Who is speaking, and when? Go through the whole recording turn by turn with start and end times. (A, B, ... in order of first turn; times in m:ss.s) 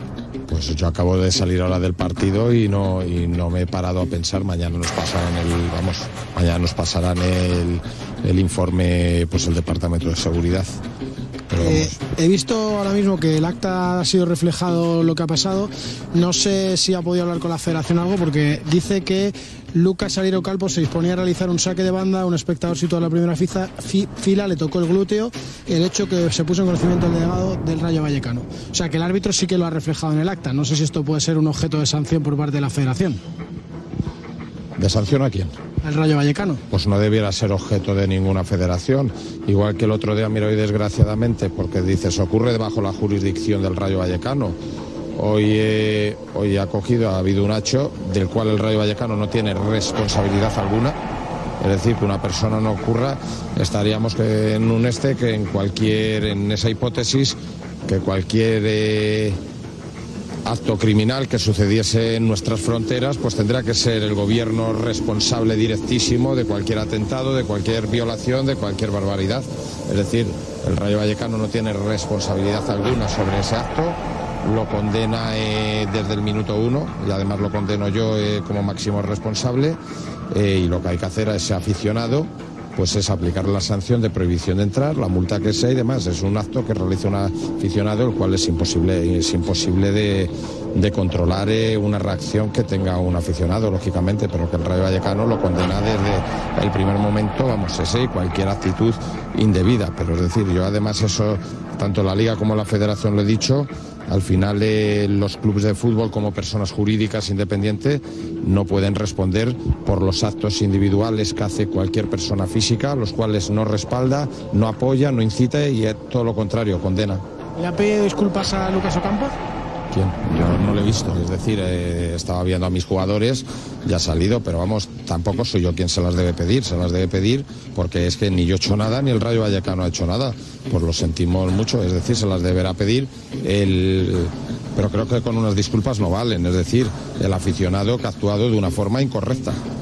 0:00.5-0:10.8 A
0:11.5-0:12.0 A
0:11.6-0:33.2 B
0:34.8-0:35.6 A
0:35.8-0:36.6 B
0:36.7-0:44.6 A
0:45.2-0:51.0 A
0:51.6-0:59.4 A
1:00.4-1:19.8 A
1:20.3-1:57.2 A
1:57.6-1:59.3 B
1:59.9-2:19.6 A